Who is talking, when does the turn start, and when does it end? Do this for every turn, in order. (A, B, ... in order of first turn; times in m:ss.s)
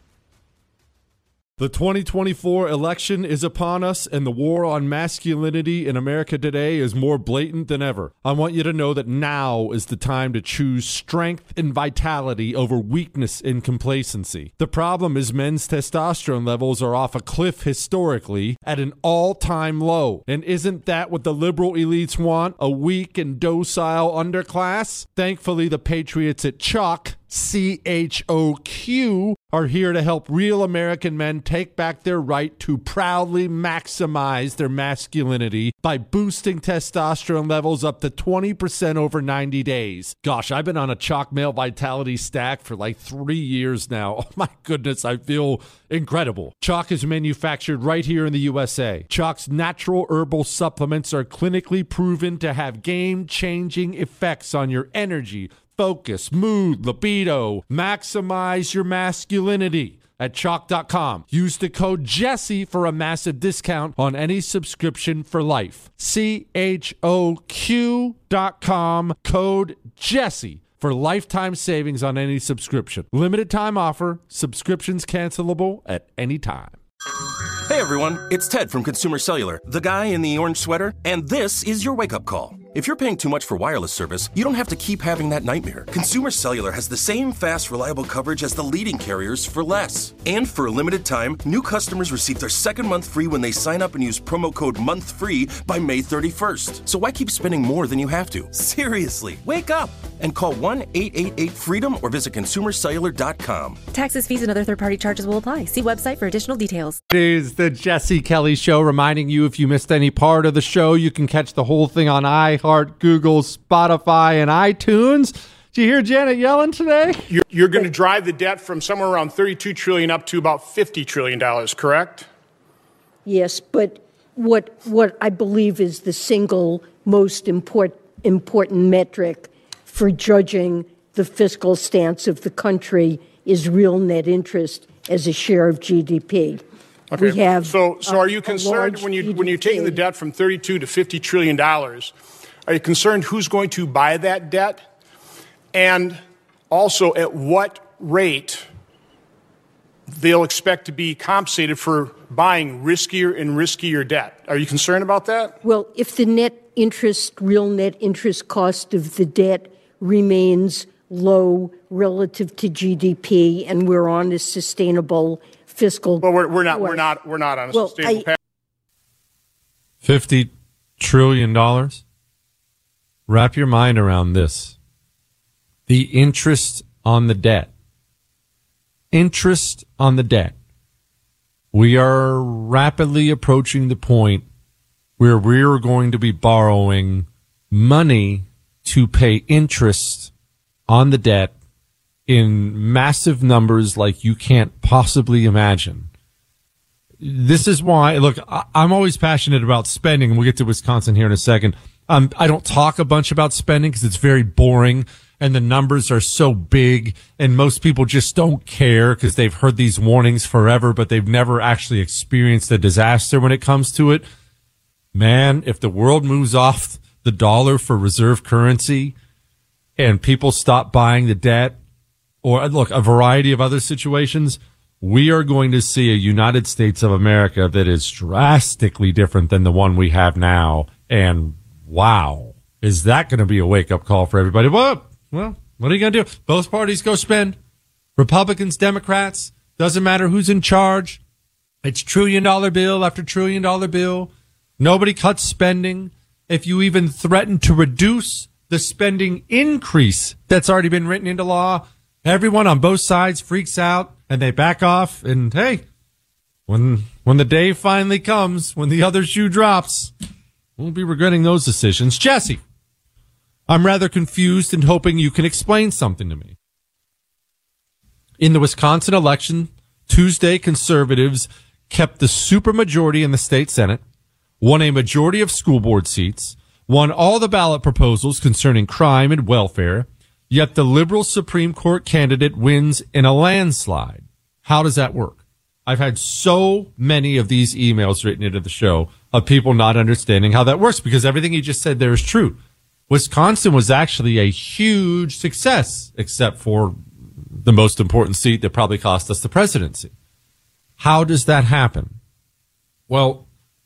0:01.6-1:16.8 A
1:17.7-1:43.8 B
1:43.9-1:47.0 C
1:47.1-1:57.3 A
1:57.3-2:02.3 D
2:03.2-2:16.6 E
2:17.1-2:22.1 D
2:17.2-2:20.0 E
2:22.7-2:24.9 D
2:25.7-2:28.7 D
2:30.1-2:35.6 D
2:35.6-2:47.1 E
2:46.2-2:48.4 D
2:47.7-2:48.3 E
2:50.0-2:52.0 A
2:53.3-2:54.8 A
2:55.9-2:57.7 A
2:59.1-3:00.6 A
3:01.7-3:04.4 A
3:05.2-3:10.3 A
3:10.9-3:11.5 A
3:12.3-3:16.1 A
3:17.2-3:34.3 A
3:35.1-3:39.2 A
3:40.0-3:41.8 A
3:42.4-3:57.6 A
3:58.2-4:01.2 A
4:01.8-4:15.8 A
4:16.7-4:20.1 A
4:20.8-4:22.6 A
4:23.7-4:26.6 A
4:28.4-4:34.0 A
4:34.6-4:57.0 A
4:57.6-5:00.1 A
5:01.0-5:02.2 A
5:03.1-5:03.5 A